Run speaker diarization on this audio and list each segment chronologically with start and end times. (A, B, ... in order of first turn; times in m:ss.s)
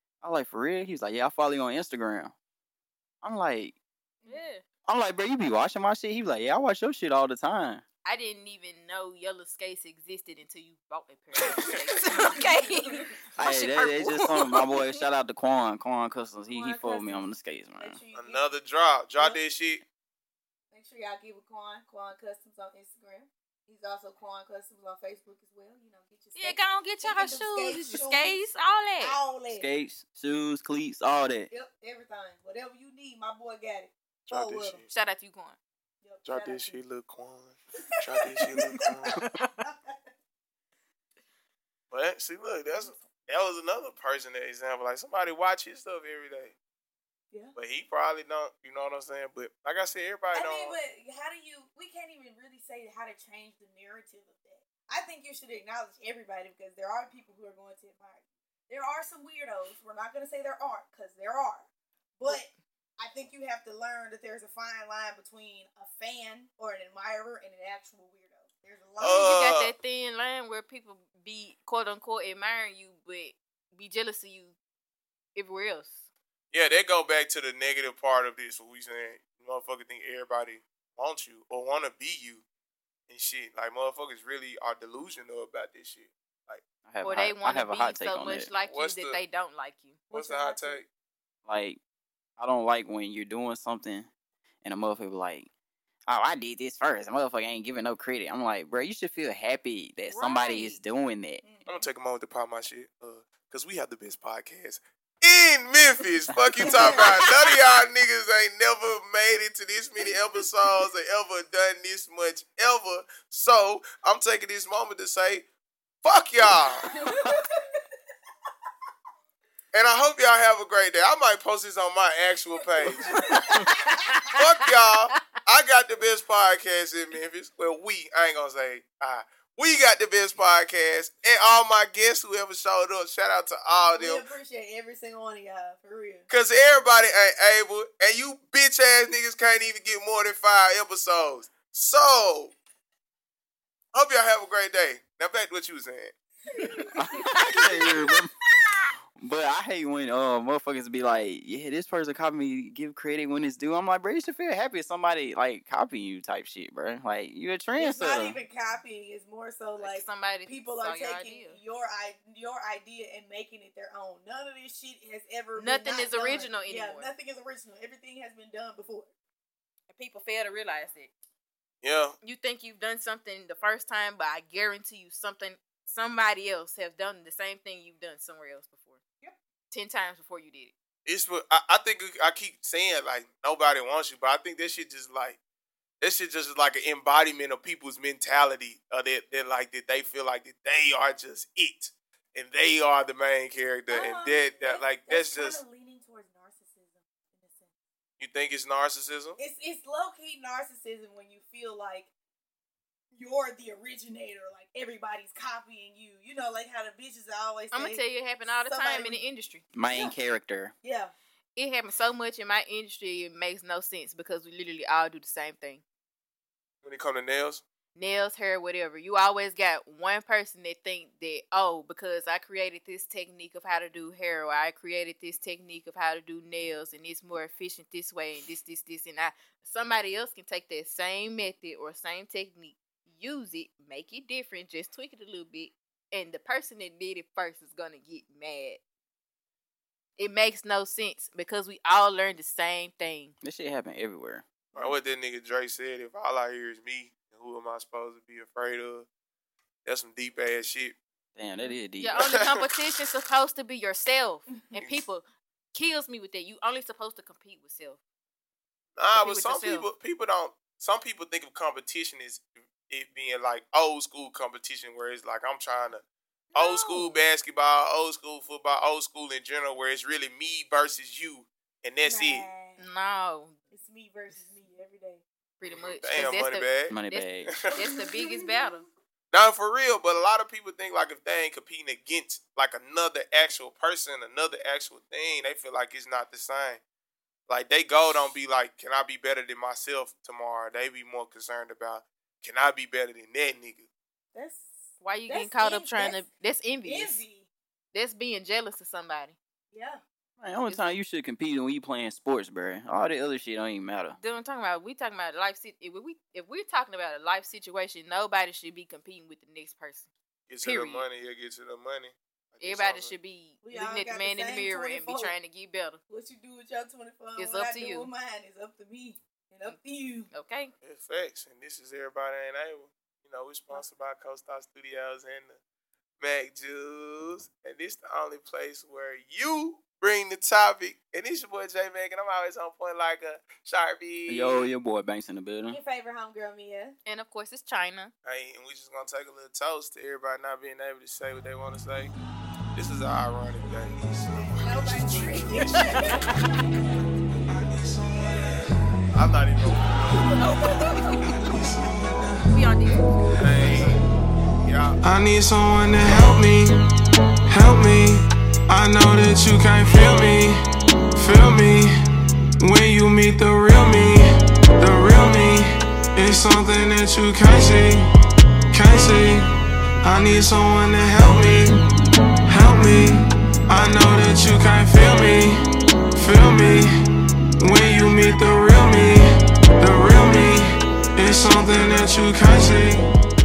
0:00.2-0:02.3 A
0:03.2-0:03.8 A
0:04.2-0:04.5 B
0:04.2-0:04.6 C
0:04.9-0:07.8 A
0:08.0-0:15.0 C
0:12.1-0:13.1 B
0:13.4-0:18.0 A
0:16.4-0:18.5 B
0:18.1-0:19.8 D
0:20.7-0:28.4 B
0:26.3-0:29.2 C
0:29.0-0:29.7 B
0:29.5-0:31.5 A
0:31.5-0:34.8 B
0:34.3-0:34.9 D
0:34.9-0:35.6 C
0:36.0-0:36.8 B
0:36.2-0:39.2 D
0:37.8-0:40.0 B
0:41.9-0:46.5 D
0:42.7-0:43.1 B
0:47.6-0:50.8 D
0:50.3-1:01.7 B
1:02.2-1:02.5 B
1:03.0-1:09.3 B
1:09.0-1:09.7 D
1:09.1-1:14.5 C
1:15.4-1:16.0 C
1:16.5-1:22.4 D
1:23.1-1:26.6 D
1:26.8-1:28.5 A
1:27.0-1:30.1 C
1:28.6-1:29.2 D
1:30.1-1:30.8 B
1:30.1-1:30.8 D
1:31.5-1:31.8 A
1:32.4-1:34.1 A
1:34.6-1:35.5 A
1:36.1-1:41.4 A
1:40.1-1:40.8 C
1:41.4-1:41.8 B
1:41.6-1:55.5 D
1:46.6-1:47.0 A
1:56.0-1:56.9 D
1:56.8-1:57.5 B
1:59.7-2:03.1 D
2:02.8-2:04.1 B
2:04.3-2:14.3 D
2:13.9-2:16.3 B
2:16.3-2:22.5 D
2:23.9-2:26.1 D
2:26.6-2:27.3 B
2:26.6-2:28.0 C
2:26.9-2:28.3 A
2:29.2-2:38.4 A
2:37.8-2:49.1 B
2:39.8-2:41.6 C
2:45.6-2:47.1 C
2:49.9-2:51.1 C
2:51.8-2:52.1 D
2:52.2-2:59.0 C
2:59.7-3:00.7 C
3:01.0-3:05.4 D
3:06.0-3:15.6 D
3:13.9-3:17.7 B
3:18.2-3:19.4 D
3:19.4-3:22.1 B
3:23.1-3:29.2 B
3:27.7-3:29.6 C
3:29.7-3:30.7 A
3:29.9-3:30.2 B
3:30.8-3:31.1 B
3:31.6-3:35.8 C
3:36.8-3:37.6 D
3:38.0-3:58.8 C
4:00.2-4:03.3 C
4:03.4-4:04.4 A
4:04.7-4:09.1 D
4:09.8-4:11.0 D
4:11.4-4:12.3 A
4:12.0-4:18.0 C
4:12.2-4:12.6 D
4:14.8-4:15.0 D
4:19.0-4:26.0 D
4:19.1-4:19.9 C
4:26.5-4:27.2 B
4:26.5-4:32.5 D
4:32.0-4:32.8 B
4:32.8-4:33.6 C
4:33.7-4:35.2 B
4:35.6-4:38.8 C
4:36.0-4:36.9 D
4:36.9-4:37.6 A
4:37.5-4:37.7 D
4:37.7-4:38.8 B
4:39.3-4:46.8 D
4:47.5-4:53.8 D
4:54.3-4:56.2 B
4:55.0-4:57.2 C
4:56.8-4:57.5 B
4:57.9-4:59.4 C
4:59.7-5:00.0 B
5:00.4-5:04.2 A
5:04.2-5:10.1 C
5:10.5-5:13.1 D
5:10.6-5:11.0 C
5:12.6-5:16.0 C
5:13.6-5:15.3 B
5:16.1-5:20.3 B
5:17.4-5:18.1 C
5:20.3-5:20.7 C
5:20.8-5:25.6 D
5:26.2-5:34.7 D
5:34.3-5:35.8 A
5:35.7-5:37.0 B
5:37.0-5:38.1 C
5:38.2-5:42.1 D
5:42.7-5:44.6 D
5:44.0-5:46.0 E
5:44.6-5:46.2 B
5:47.5-5:48.8 E
5:49.1-5:50.4 D
5:50.4-5:51.3 C
5:51.2-5:52.5 E
5:52.5-5:53.2 C
5:53.2-5:53.9 E
5:53.3-5:55.0 D
5:55.0-5:56.9 E
5:57.5-6:00.6 E
6:01.1-6:01.9 E
6:02.6-6:08.1 E
6:08.7-6:11.9 E
6:12.5-6:15.6 E
6:16.1-6:16.9 E
6:17.6-6:23.1 E